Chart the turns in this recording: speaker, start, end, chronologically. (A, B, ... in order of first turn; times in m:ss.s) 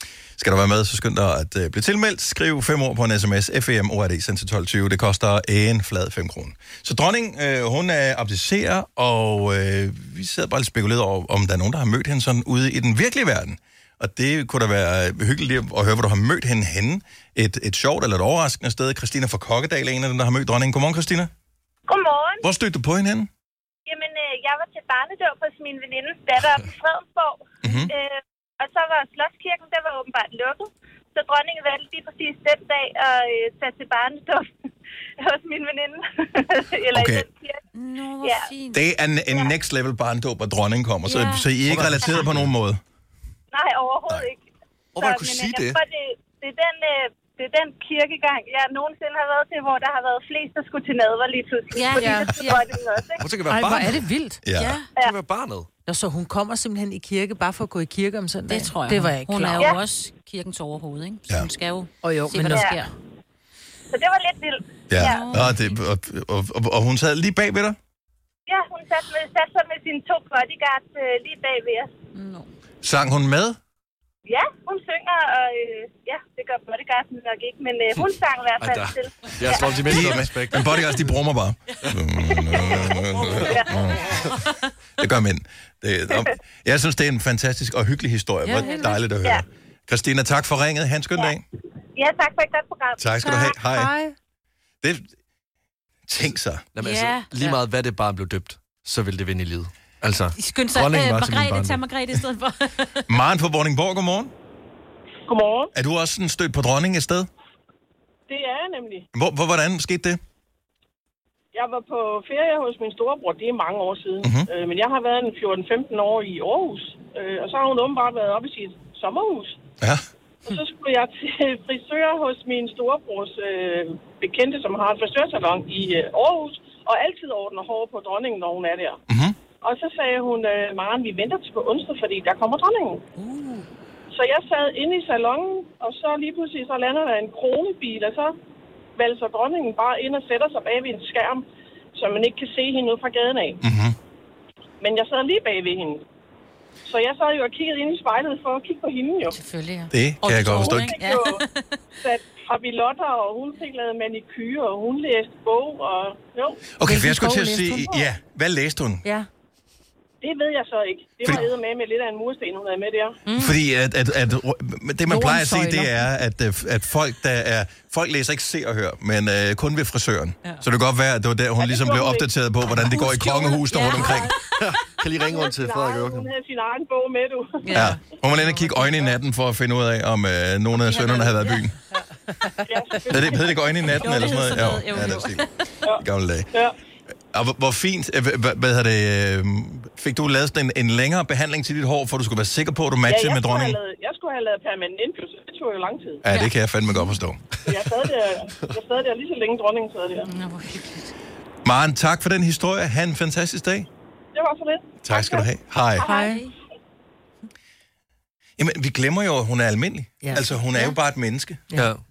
0:00.4-0:21.3 A
0:21.9-0:22.4 B
0:22.4-0:23.3 A
0:23.9-0:34.5 B
0:27.6-0:27.9 A
0:35.2-0:37.6 B
0:36.9-0:37.3 A
0:37.7-0:38.8 C
0:38.2-0:38.5 B
0:38.7-0:42.8 A
0:41.0-0:41.5 C
0:41.7-0:42.5 D
0:43.5-0:44.4 B
0:44.9-0:45.8 D
0:45.0-0:53.3 B
0:51.7-0:52.6 C
0:52.0-0:52.3 E
0:53.2-0:54.1 D
0:53.5-0:54.4 E
0:54.4-0:54.8 A
0:54.5-0:54.9 C
0:55.0-0:55.7 D
0:55.8-0:59.8 E
0:58.5-1:02.9 C
1:02.0-1:02.8 E
1:03.9-1:05.3 B
1:04.9-1:07.8 A
1:05.0-1:05.8 C
1:08.5-1:11.9 B
1:12.2-1:12.4 C
1:12.8-1:13.6 A
1:14.2-1:19.8 B
1:18.6-1:21.2 D
1:19.8-1:24.3 A
1:22.3-1:23.8 B
1:22.6-1:23.6 D
1:25.0-1:31.4 A
1:28.5-1:28.8 E
1:28.5-1:28.9 C
1:32.0-1:33.5 B
1:33.0-1:33.9 A
1:33.2-1:34.1 E
1:34.8-1:35.1 A
1:36.1-1:36.6 A
1:36.7-1:41.8 D
1:36.8-1:37.6 C
1:40.4-1:43.0 C
1:43.1-1:44.3 A
1:45.3-1:45.7 F
1:45.7-1:47.3 A
1:48.3-1:49.1 F
1:49.1-1:50.2 A
1:51.5-1:59.6 F
1:54.2-1:54.5 A
2:00.4-2:09.0 F
2:09.1-2:09.4 A
2:09.6-2:13.0 F
2:13.2-2:13.6 C
2:14.1-2:18.3 F
2:19.0-2:21.4 F
2:21.9-2:23.6 F
2:23.6-2:24.0 A
2:24.8-2:26.0 F
2:26.8-2:29.4 F
2:29.2-2:31.8 C
2:29.9-2:31.0 A
2:30.5-2:31.4 F
2:32.0-2:36.6 F
2:36.7-2:39.0 A
2:36.8-2:38.0 E
2:40.2-2:43.2 F
2:43.3-2:43.6 C
2:43.4-2:54.3 A
2:45.1-2:46.1 E
2:51.6-2:52.3 F
2:52.8-2:54.6 C
2:53.9-2:54.3 F
2:54.6-2:56.3 D
2:55.1-2:57.8 F
2:57.6-2:58.0 C
2:57.7-3:01.7 A
3:00.8-3:01.6 C
3:02.6-3:03.8 F
3:03.1-3:06.5 A
3:03.9-3:05.7 C
3:05.8-3:06.7 F
3:07.3-3:13.8 A
3:13.1-3:16.2 F
3:16.2-3:17.4 A
3:17.6-3:20.3 F
3:20.2-3:21.1 C
3:21.6-3:23.9 A
3:24.3-3:26.3 F
3:25.0-3:26.0 A
3:26.0-3:26.5 C
3:26.0-3:26.4 E
3:28.6-3:31.7 A
3:31.7-3:32.0 D